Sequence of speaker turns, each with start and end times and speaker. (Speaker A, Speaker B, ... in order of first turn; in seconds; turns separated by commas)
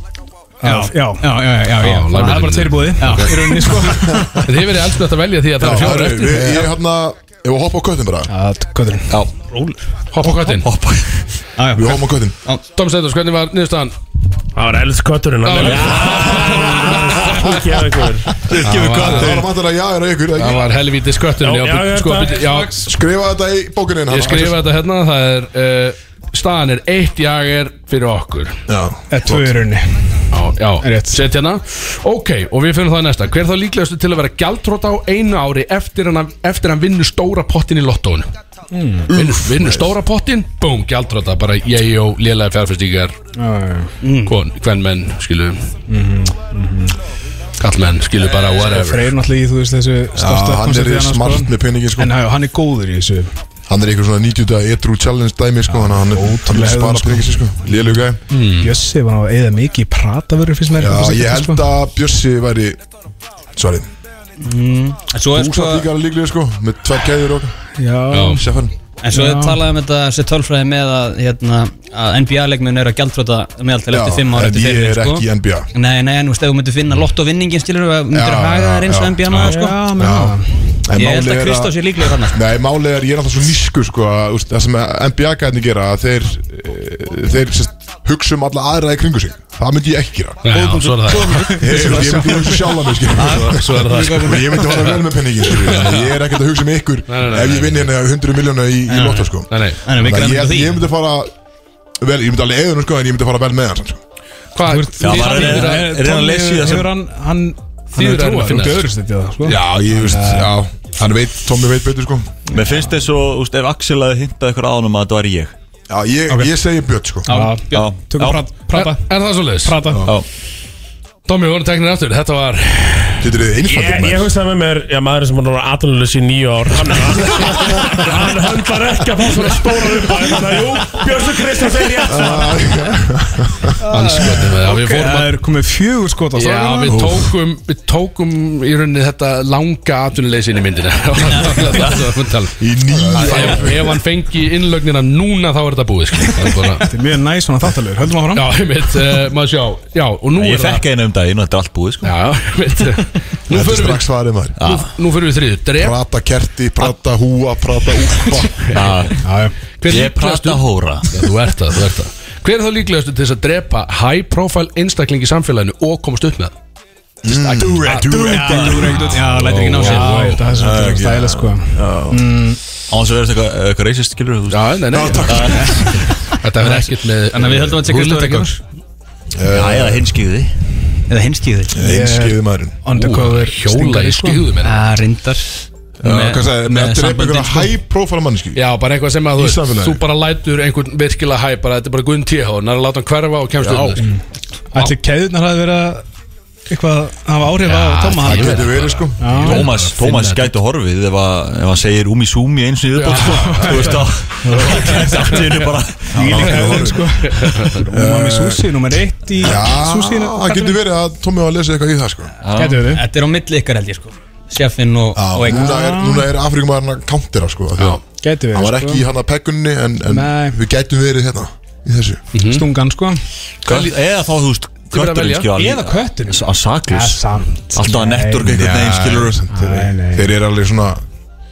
Speaker A: 0.6-1.5, Speaker B: 0.6-2.5, Speaker C: 1.8-3.6, Speaker A: 2.1-4.4, Speaker B: 3.0-3.5, Speaker D: 3.9-4.6, Speaker C: 4.5-6.7, Speaker D: 5.6-8.3, Speaker A: 8.3-9.2, Speaker B: 9.5-9.8, Speaker C: 10.1-10.7, Speaker E: 10.4-11.3, Speaker B: 11.6-12.6, Speaker D: 11.7-12.4, Speaker C: 12.7-14.0, Speaker F: 14.6-18.3, Speaker C: 15.4-17.6, Speaker E: 18.4-19.5, Speaker C: 18.6-19.5, Speaker D: 18.9-20.7, Speaker C: 20.4-22.8, Speaker F: 21.4-22.4, Speaker A: 22.4-22.9, Speaker D: 22.8-24.6, Speaker C: 24.1-28.6, Speaker D: 28.7-29.6, Speaker A: 29.1-30.3, Speaker C: 30.3-38.3, Speaker A: 30.8-31.2, Speaker A: 38.7-39.1, Speaker D: 39.1-39.9, Speaker C: 39.1-43.2, Speaker A: 43.4-44.0, Speaker B: 44.0-44.4, Speaker C: 44.2-45.7, Speaker A: 45.9-47.0, Speaker C: 47.6-49.1, Speaker A: 48.4-53.3, Speaker D: 50.1-52.1, Speaker D: 53.7-58.2, Speaker A: 55.7-58.0, Speaker C: 58.3-58.7, Speaker A: 58.6-61.7, Speaker D: 60.8-62.8, Speaker D: 63.6-63.9, Speaker B: 64.4-65.9, Speaker D: 65.3-67.6, Speaker A: 67.8-68.4, Speaker C: 68.1-68.4, Speaker D: 68.3-68.7, Speaker B: 69.0-79.8, Speaker A: 69.1-69.6, Speaker D: 73.9-75.7, Speaker D: 78.1-81.8, Speaker A: 79.4-80.6, Speaker B: 81.0-82.4, Speaker D: 82.3-90.6, Speaker C: 90.4-91.5, Speaker B: 90.5-91.9, Speaker A: 91.1-93.0, Speaker D: 91.5-101.3, Speaker B: 93.2-94.9, Speaker C: 93.2-94.8, Speaker C: 95.6-96.1, Speaker C: 97.1-97.9, Speaker B: 98.9-99.3, Speaker C: 99.4-99.8, Speaker B: 99.8-100.8, Speaker D: 102.0-104.0, Speaker C: 104.5-105.9, Speaker A: 104.6-110.6, Speaker E: 105.0-106.9, Speaker C: 108.0-108.9, Speaker D: 109.4-112.4, Speaker A: 112.5-112.8, Speaker E: 112.5-115.5, Speaker D: 115.9-117.3, Speaker B: 117.3-117.9, Speaker A: 117.3-119.0, Speaker E: 117.7-118.5, Speaker C: 118.7-119.9, Speaker A: 119.6-120.1, Speaker D: 119.9-120.2, Speaker C: 121.3-123.3, Speaker D: 123.2-124.3, Speaker F: 123.7-132.6, Speaker D: 132.1-133.8, Speaker A: 132.2-133.0, Speaker C: 133.9-135.3, Speaker A: 133.9-137.0, Speaker C: 136.3-146.9, Speaker D: 136.9-137.3, Speaker D: 142.6-144.0, Speaker A: 146.8-148.5, Speaker C: 148.3-150.8, Speaker E: 150.3-152.2, Speaker C: 152.0-154.1, Speaker D: 153.5-154.6, Speaker E: 154.6-154.9, Speaker C: 154.6-156.0, Speaker D: 155.8-158.7, Speaker C: 158.5-159.1, Speaker E: 158.7-159.2, Speaker A: 159.2-159.5, Speaker C: 159.8-166.6, Speaker E: 159.8-161.3, Speaker D: 167.2-169.1, Speaker C: 167.3-170.5, Speaker B: 167.8-170.3, Speaker A: 168.1-172.6, Speaker E: 168.4-169.0, Speaker D: 170.5-172.2, Speaker E: 172.9-176.0, Speaker C: 174.5-178.5, Speaker D: 174.9-176.1, Speaker B: 176.6-178.6, Speaker D: 179.3-180.2, Speaker E: 179.5-180.6, Speaker B: 181.1-181.8, Speaker D: 181.7-182.9, Speaker A: 181.8-184.5, Speaker C: 182.9-184.8, Speaker B: 184.6-187.7, Speaker D: 186.0-188.6, Speaker C: 188.6-194.0, Speaker D: 189.3-190.0, Speaker D: 193.6-194.1, Speaker A: 194.0-196.1, Speaker A: 196.7-199.7, Speaker C: 197.7-200.5, Speaker D: 198.2-199.5, Speaker E: 199.4-206.8, Speaker C: 202.9-204.0, Speaker D: 203.1-204.1, Speaker A: 203.5-203.9, Speaker A: 204.4-205.4, Speaker C: 204.7-205.8, Speaker A: 206.1-210.8, Speaker D: 206.2-207.1, Speaker C: 206.5-207.8, Speaker D: 207.9-208.8, Speaker D: 209.4-212.4, Speaker E: 212.4-212.9, Speaker A: 212.6-213.0, Speaker B: 212.9-215.7, Speaker D: 215.2-222.2, Speaker A: 215.5-216.4, Speaker A: 218.2-219.0, Speaker A: 220.1-220.6, Speaker C: 222.3-222.7, Speaker A: 222.4-223.2, Speaker E: 223.7-229.5, Speaker C: 223.7-224.0, Speaker C: 224.9-225.5, Speaker A: 225.6-228.5, Speaker D: 228.4-231.0, Speaker A: 229.5-230.4